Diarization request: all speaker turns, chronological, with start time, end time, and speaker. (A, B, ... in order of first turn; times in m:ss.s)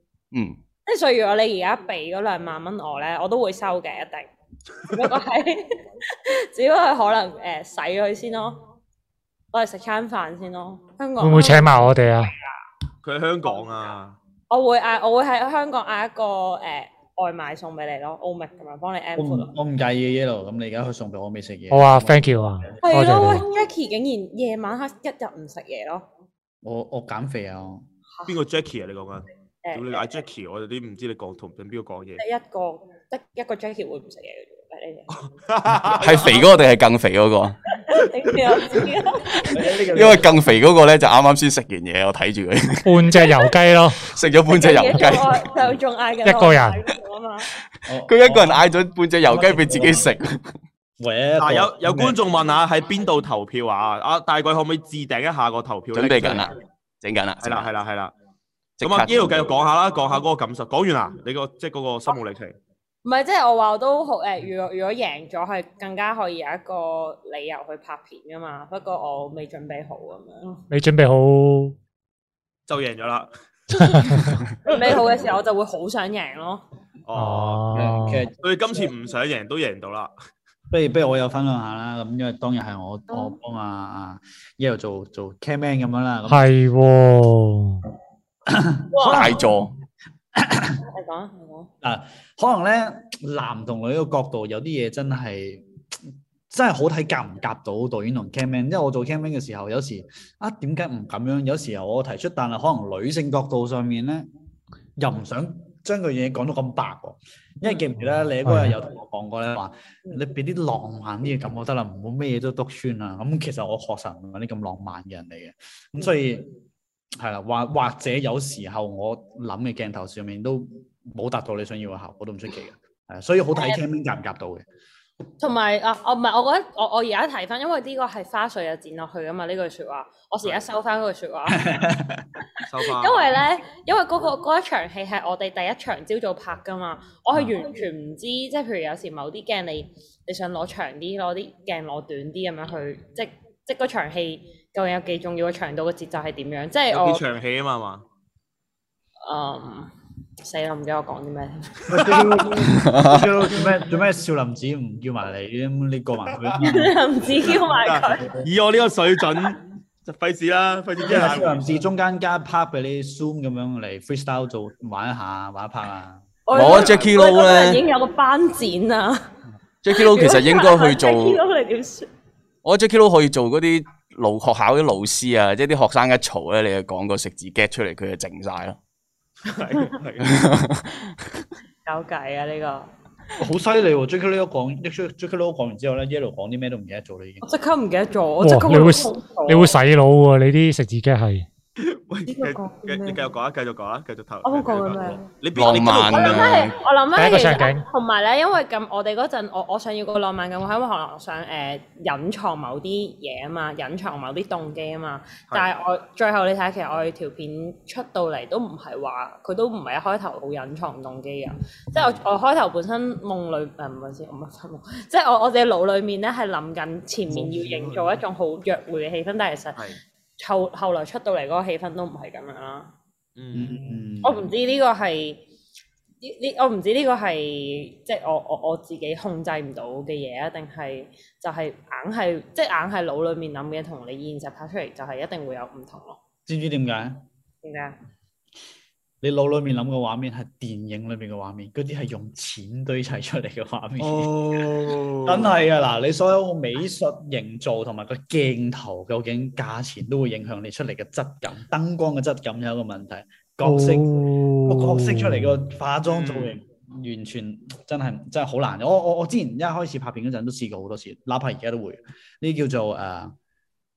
0:00.3-0:00.6 A
0:00.8-0:04.3 B
0:04.8-0:08.6 B
0:09.5-0:12.6 B
0:11.2-0:12.3 C
0:13.0-0:14.2 D
0:14.5-0:19.5 B
0:19.2-0:22.7 E
0:21.7-0:23.4 C
0:22.8-0:26.0 B
0:26.6-0:27.8 E
0:28.2-0:32.2 D
0:29.6-0:30.2 B
0:32.2-0:35.3 B
0:35.5-0:36.5 D
0:35.9-0:37.6 A
0:37.6-0:39.7 B
0:39.5-0:40.4 E
0:39.9-0:43.2 A
0:42.8-0:44.1 C
0:43.2-0:43.4 B
0:44.0-0:45.5 A
0:44.5-0:47.5 B
0:46.2-0:46.8 C
0:47.9-0:48.6 E
0:48.0-0:50.4 A
0:49.2-0:50.1 E
0:51.0-0:52.2 E
0:51.4-0:56.5 D
0:55.9-0:57.7 A
0:57.4-0:58.1 D
0:58.8-0:59.5 A
0:58.8-1:02.6 D
1:03.0-1:10.6 B
1:10.7-1:11.7 C
1:12.7-1:13.3 D
1:13.8-1:14.4 C
1:14.6-1:16.6 B
1:14.8-1:15.1 D
1:17.0-1:17.6 D
1:17.1-1:18.3 C
1:17.7-1:18.3 E
1:18.4-1:20.1 D
1:20.7-1:26.5 E
1:23.1-1:23.4 B
1:26.3-1:27.8 C
1:28.4-1:29.4 E
1:28.9-1:29.4 B
1:29.0-1:29.7 A
1:30.3-1:30.8 E
1:30.8-1:31.7 B
1:31.8-1:35.6 E
1:36.5-1:44.2 E
1:45.0-1:56.5 E
1:48.4-1:48.7 C
1:57.2-2:04.6 E
2:05.4-2:11.7 B
2:11.6-2:12.3 E
2:12.6-2:27.2 B
2:12.6-2:13.3 D
2:26.9-2:28.0 D
2:29.2-2:29.9 B
2:30.4-2:31.8 B
2:31.9-2:32.6 D
2:31.9-2:36.9 E
2:32.7-2:33.2 A
2:36.6-2:38.4 B
2:37.6-2:41.6 D
2:41.0-2:46.2 E
2:46.4-2:49.2 B
2:46.5-2:47.8 A
2:46.6-2:47.1 D
2:49.8-2:51.4 A
2:49.9-2:52.1 B
2:52.6-2:58.8 A
2:59.4-3:00.5 D
3:00.2-3:01.4 A
3:01.8-3:02.9 B
3:03.4-3:07.4 E
3:07.4-3:09.8 B
3:08.4-3:11.5 C
3:11.8-3:16.7 D
3:12.3-3:13.2 B
3:14.4-3:39.8 B
3:15.5-3:16.7 A
3:17.2-3:17.8 C
3:37.3-3:38.2 E
3:40.4-3:42.9 B
3:43.4-3:43.8 D
3:43.5-3:44.5 E
3:44.2-3:45.4 B
3:46.2-3:56.2 B
3:56.4-3:57.2 E
3:57.6-3:58.0 B
3:59.2-4:23.3 E
4:04.0-4:05.5 D
4:13.6-4:15.6 C
4:16.1-4:16.6 D